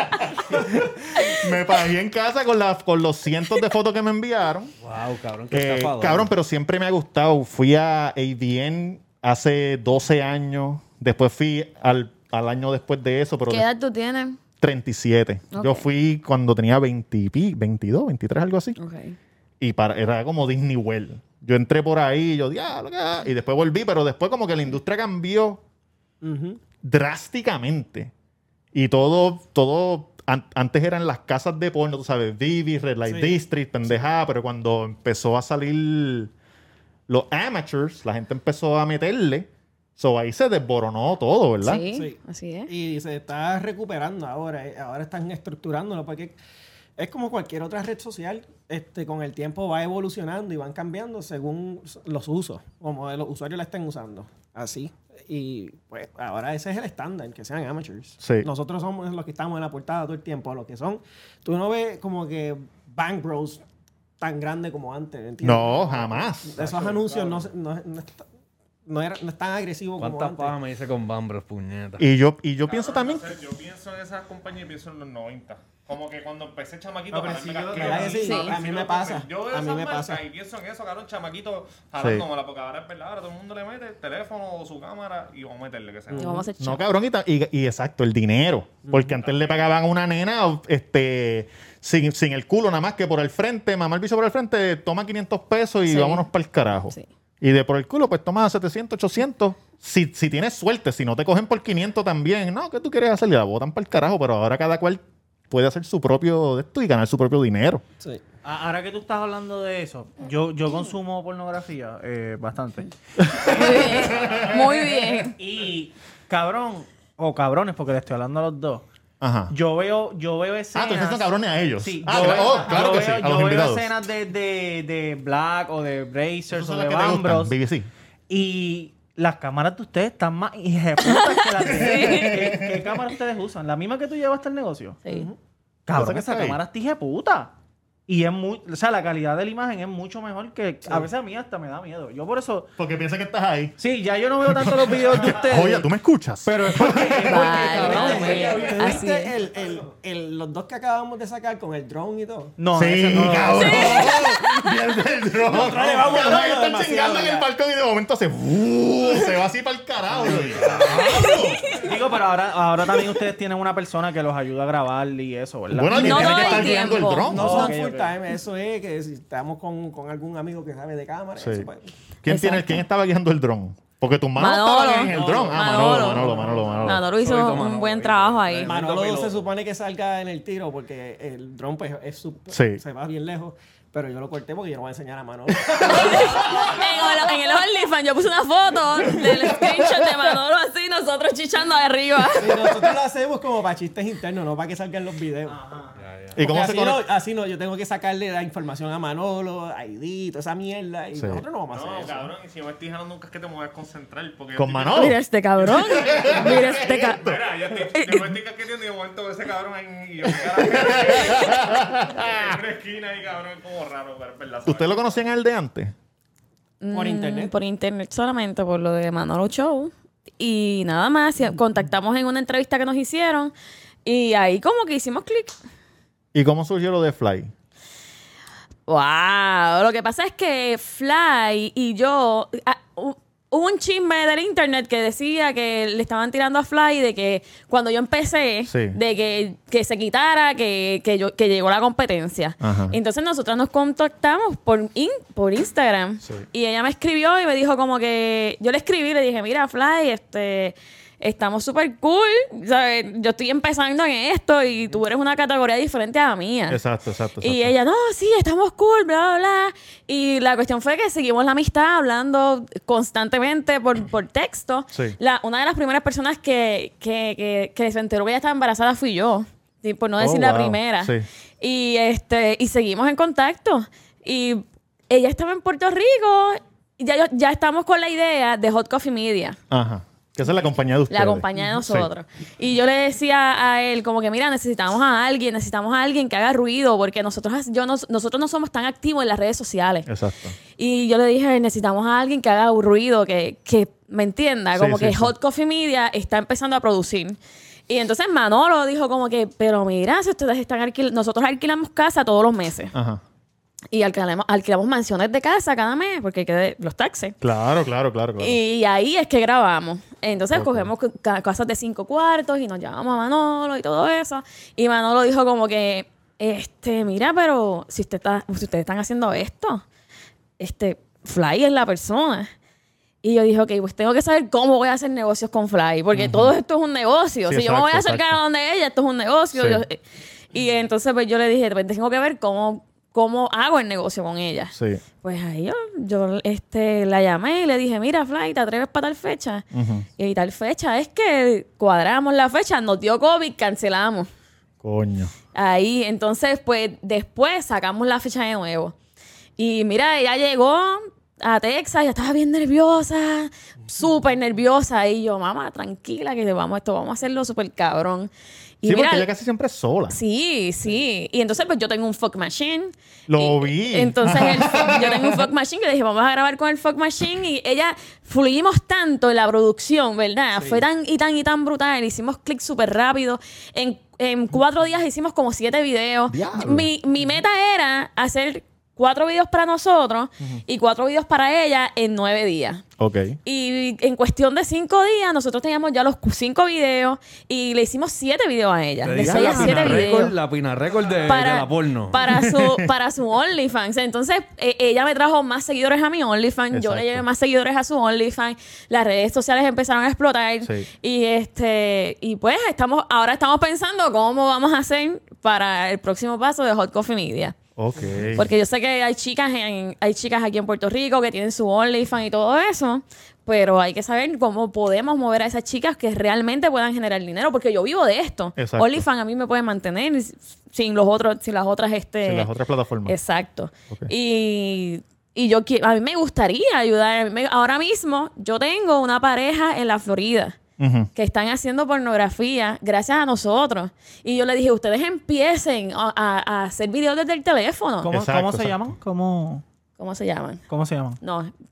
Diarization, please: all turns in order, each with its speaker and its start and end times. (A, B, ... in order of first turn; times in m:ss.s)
0:00.4-0:04.7 A
0:04.8-0:06.3 B
0:05.5-0:13.7 A
0:13.5-0:14.4 C
0:14.6-0:18.8 A
0:15.5-0:15.9 C
0:18.8-0:19.2 C
0:19.6-0:25.6 A
0:26.2-0:26.6 D
0:26.8-0:28.1 A
0:28.7-0:36.3 A
0:33.1-0:34.1 D
0:37.1-0:41.8 A
0:41.6-0:42.7 C
0:41.9-0:46.4 D
0:47.0-1:03.6 D
0:58.2-0:58.5 A
1:04.2-1:08.2 D
1:05.4-1:06.6 A
1:07.0-1:07.4 E
1:08.9-1:10.6 D
1:10.0-1:12.0 B
1:12.0-1:13.4 A
1:12.6-1:26.5 E
1:17.1-1:18.4 F
1:17.5-1:20.3 D
1:18.2-1:18.6 C
1:22.0-1:22.3 A
1:26.1-1:26.5 D
1:26.2-1:26.8 C
1:26.6-1:47.8 A
1:29.2-1:29.6 E
1:35.9-1:36.3 C
1:48.4-1:52.9 F
1:53.5-1:54.4 A
1:53.5-1:55.4 C
1:55.4-1:58.8 F
1:59.2-1:59.5 A
1:59.5-2:01.2 F
2:00.7-2:03.9 A
2:01.8-2:07.6 F
2:06.5-2:07.9 A
2:08.3-2:15.3 F
2:11.1-2:12.6 C
2:11.9-2:12.7 A
2:15.9-2:17.5 F
2:15.9-2:16.6 A
2:18.1-2:22.7 F
2:22.8-2:23.8 A
2:23.8-2:25.9 F
2:24.4-2:27.4 A
2:26.4-2:29.0 F
2:27.3-2:29.4 C
2:27.4-2:32.6 D
2:32.6-2:34.1 F
2:32.8-2:41.6 A
2:33.5-2:34.3 C
2:35.4-2:37.5 D
2:40.6-2:41.1 F
2:41.1-2:41.8 C
2:41.7-2:48.2 F
2:45.7-2:47.7 A
2:45.9-2:47.4 C
2:46.2-2:51.9 D
2:51.4-2:51.7 A
2:52.2-2:57.0 A
2:52.3-2:52.8 C
2:54.4-2:58.8 C
2:55.1-2:56.9 D
2:57.1-2:59.4 B
2:58.7-3:07.1 D
3:02.5-3:02.8 A
3:05.6-3:06.6 A
3:05.9-3:12.8 C
3:09.2-3:10.1 A
3:12.3-3:15.6 D
3:15.5-3:15.9 F
3:16.0-3:16.4 B
3:16.4-3:17.0 A
3:16.4-3:22.3 D
3:21.1-3:21.4 A
3:21.7-3:35.2 E
3:24.5-3:25.2 A
3:24.9-3:27.3 C
3:25.9-3:27.4 A
3:27.8-3:28.4 C
3:30.7-3:32.6 A
3:34.6-3:35.9 A
3:36.8-3:43.5 C
3:36.9-3:37.5 D
3:44.0-3:45.6 C
3:46.3-3:47.5 A
3:48.9-4:16.8 C
3:58.7-3:59.0 A
4:02.6-4:03.0 A
4:16.7-4:17.7 A
4:17.4-4:39.6 C
4:30.2-4:31.3 A
4:39.7-4:42.1 A
4:41.1-4:50.1 C
4:50.1-4:50.6 A
4:50.8-4:57.4 C
4:54.8-4:55.3 A
4:57.9-5:02.9 C
5:02.9-5:03.2 A
5:03.9-5:07.4 C
5:07.4-5:08.6 A
5:08.4-5:19.8 C
5:10.5-5:10.9 A
5:20.6-5:22.5 C
5:23.2-5:30.0 C
5:26.1-5:26.6 A
5:27.5-5:28.4 A
5:29.5-5:29.8 A
5:30.5-5:39.6 C
5:34.7-5:35.0 A
5:39.7-5:40.1 A
5:40.2-5:44.3 C
5:44.8-5:45.3 A
5:45.6-5:49.0 C
5:49.6-5:58.3 C
5:58.8-5:59.3 C
5:58.8-6:00.2 A
6:00.1-6:22.8 C
6:03.3-6:05.4 A
6:16.3-6:16.9 A
6:23.0-6:23.4 A
6:23.4-6:30.3 C
6:29.0-6:32.2 B
6:29.2-6:30.3 A
6:31.3-6:47.6 C
6:32.2-6:32.9 A
6:36.7-6:37.2 A
6:40.6-6:40.9 A
6:47.8-6:48.5 A
6:48.4-7:02.5 C
6:58.6-6:59.1 A
7:02.2-7:03.2 A
7:03.1-7:10.6 C
7:10.8-7:11.1 A
7:11.2-7:18.1 C
7:18.0-7:19.6 F
7:18.1-7:18.9 A
7:20.0-7:20.6 C
7:20.7-7:21.2 F
7:21.2-7:21.5 C